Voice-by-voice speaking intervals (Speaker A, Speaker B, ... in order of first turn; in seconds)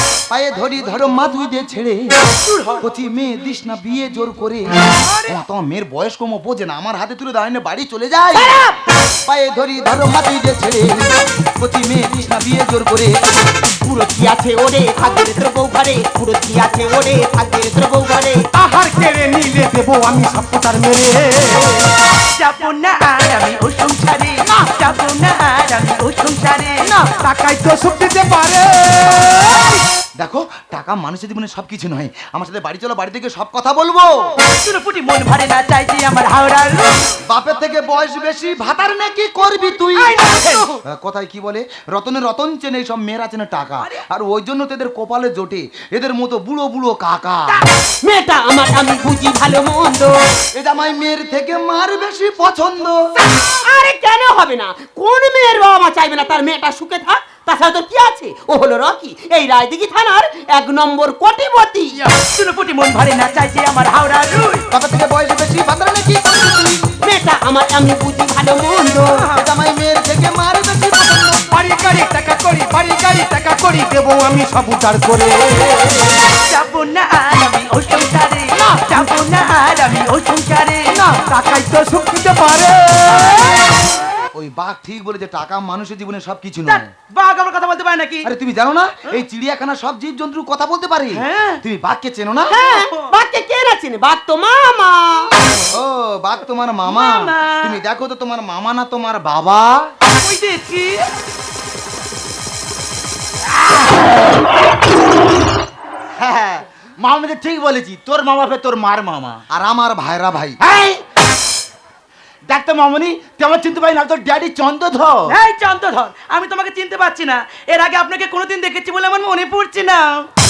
Speaker A: 0.3-2.1, 2.8-8.6, 9.2-13.5, 30.2-34.3, 37.3-47.6, 50.5-53.1, 64.7-66.9, 69.2-71.5, 84.3-86.9, 88.2-92.5, 95.7-99.9, 109.5-110.6
Speaker B: 2.4-2.9, 5.0-5.4, 22.2-27.1, 34.4-37.1, 40.0-40.8, 62.1-64.7, 76.3-80.9, 86.7-88.3, 91.1-91.6, 92.5-93.1, 96.8-97.8, 100.1-101.1, 115.3-120.2
Speaker C: 8.3-8.8, 13.8-18.4, 48.0-50.3, 53.2-62.0, 67.0-69.3, 92.5-95.3
Speaker D: 18.5-21.9, 27.0-29.7, 71.5-76.1, 81.0-83.7
Speaker E: 106.2-109.4, 110.6-111.0, 112.5-115.3